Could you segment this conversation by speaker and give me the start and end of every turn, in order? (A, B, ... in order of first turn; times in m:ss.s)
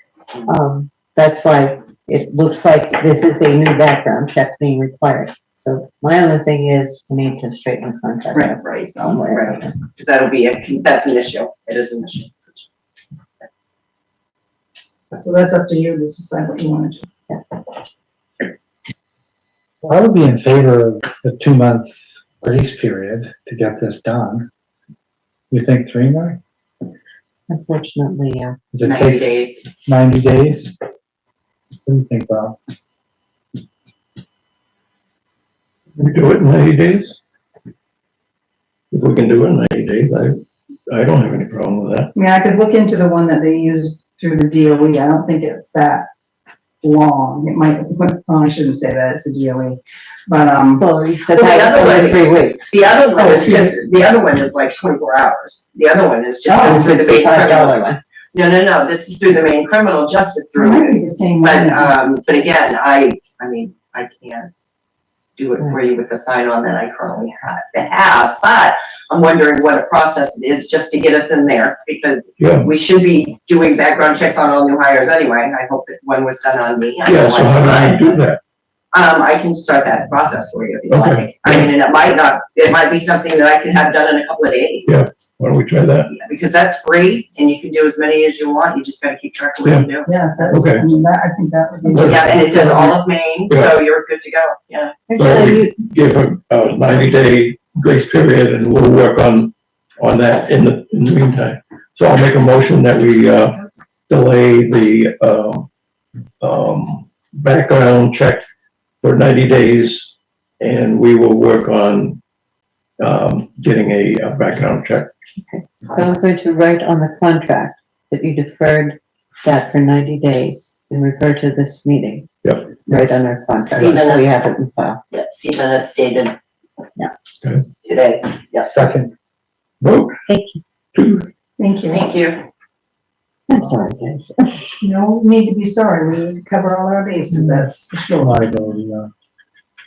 0:00.4-0:09.7 A
0:08.3-0:09.2 B
0:09.2-0:12.6 C
0:15.1-0:17.1 B
0:19.8-0:24.5 D
0:25.5-0:26.4 D
0:27.5-0:28.6 A
0:28.7-0:30.8 D
0:28.8-0:29.6 C
0:31.8-0:32.6 D
0:36.0-0:37.2 E
0:38.9-0:42.1 E
0:42.1-0:46.1 B
0:46.8-0:50.8 B
0:50.8-0:52.7 A
0:51.3-1:04.5 C
0:53.1-0:53.9 B
0:56.5-0:56.9 B
0:56.6-0:58.0 A
1:00.6-1:01.9 B
1:05.4-1:18.1 C
1:12.4-1:12.7 E
1:17.0-1:18.4 E
1:18.9-1:25.0 C
1:20.9-1:21.5 E
1:24.9-1:26.1 E
1:26.1-1:30.6 C
1:29.6-1:29.9 E
1:30.0-1:32.7 B
1:30.5-1:30.8 E
1:31.9-1:33.8 E
1:32.0-1:35.1 C
1:35.1-1:35.7 A
1:35.2-1:45.7 E
1:46.4-1:48.4 E
1:49.0-1:52.2 E
1:53.0-1:55.1 E
1:55.4-2:05.0 A
1:55.9-1:56.2 C
2:02.4-2:02.7 E
2:03.7-2:04.5 C
2:05.1-2:06.4 C
2:07.8-2:08.8 C
2:08.7-2:09.1 D
2:09.8-2:10.2 E
2:10.3-2:10.6 A
2:10.9-2:11.3 E
2:11.6-2:12.0 B
2:11.9-2:12.4 C
2:13.5-2:14.7 A
2:14.8-2:18.4 B
2:18.2-2:19.1 D